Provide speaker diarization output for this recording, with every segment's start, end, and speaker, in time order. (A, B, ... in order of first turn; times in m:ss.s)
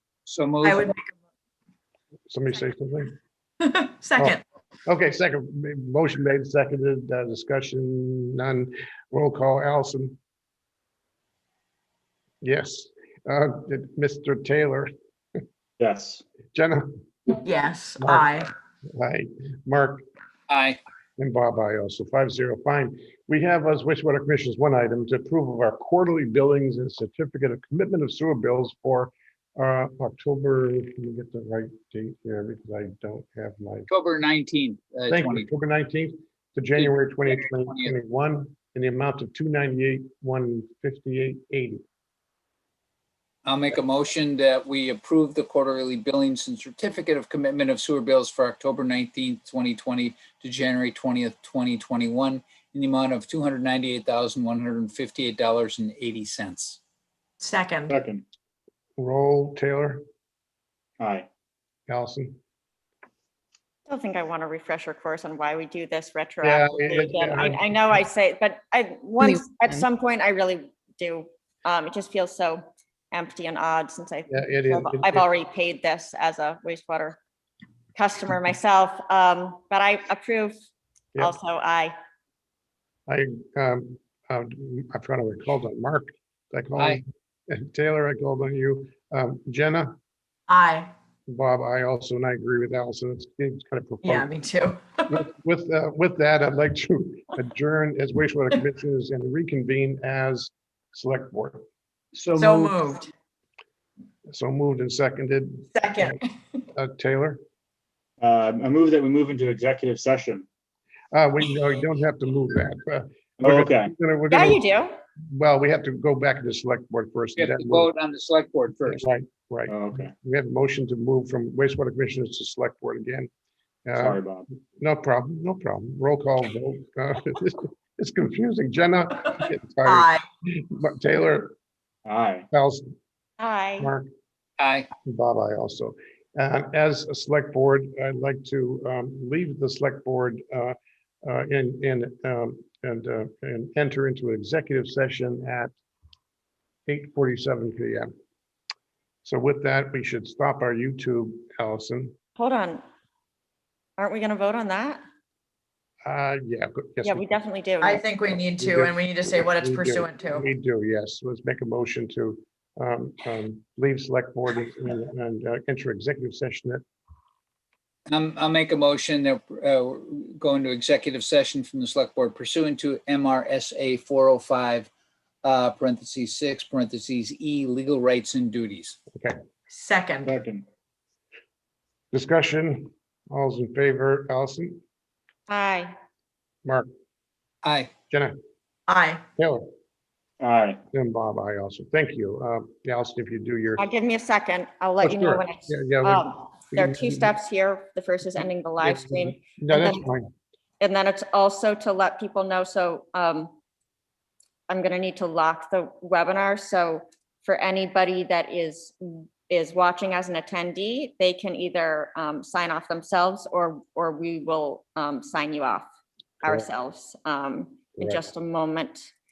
0:00.3-0:00.9 A
0:00.6-0:01.1 B
0:02.3-0:03.1 C
0:03.6-0:04.4 B
0:04.2-0:10.2 C
0:12.4-0:14.9 C
0:15.8-0:16.2 D
0:16.5-0:17.3 C
0:17.4-0:18.5 B
0:18.0-0:20.0 C
0:20.5-0:20.8 A
0:21.2-0:33.9 C
0:33.9-0:35.5 A
0:35.1-0:41.8 C
0:36.8-0:37.9 A
0:43.4-0:56.8 A
0:57.4-0:58.0 B
0:57.9-0:58.2 D
0:59.0-1:00.0 C
1:01.0-1:01.3 D
1:01.9-1:02.4 C
1:03.9-1:17.2 E
1:06.4-1:07.8 C
1:14.3-1:15.3 C
1:18.0-1:20.5 E
1:21.2-1:21.9 E
1:23.1-1:30.0 C
1:30.5-1:30.9 B
1:31.3-1:34.3 C
1:34.0-1:35.2 B
1:35.1-1:41.6 C
1:42.3-1:43.1 B
1:44.3-1:46.2 C
1:45.8-1:46.3 B
1:46.7-1:47.4 C
1:48.2-1:50.5 D
1:51.1-1:54.6 C
1:53.4-1:53.9 D
1:54.3-1:55.0 E
1:55.3-1:57.9 C
1:57.4-1:59.1 A
1:58.9-2:03.3 C
1:59.7-2:00.1 D
2:03.9-2:11.6 C
2:04.0-2:04.5 D
2:09.8-2:10.2 B
2:12.1-2:12.5 D
2:12.5-2:12.9 C
2:13.4-2:13.9 E
2:13.8-2:14.1 C
2:14.6-2:14.9 A
2:15.1-2:25.7 C
2:26.9-2:28.1 C
2:29.2-2:32.1 C
2:32.4-2:32.8 E
2:34.0-2:35.0 E
2:36.1-2:37.4 C
2:37.0-2:38.0 E
2:37.8-2:40.5 B
2:38.6-2:46.8 C
2:48.1-2:54.9 A
2:55.4-2:59.0 A
2:59.7-3:00.4 B
3:00.2-3:00.6 D
3:02.1-3:04.8 C
3:05.5-3:05.9 E
3:07.6-3:07.9 A
3:08.1-3:08.4 C
3:08.9-3:09.2 B
3:09.4-3:09.7 C
3:10.4-3:10.8 D
3:10.9-3:13.8 C
3:13.8-3:20.0 E
3:15.0-3:17.3 C
3:18.8-3:20.3 C
3:20.8-3:23.5 E
3:24.7-3:35.9 E
3:36.4-3:39.1 E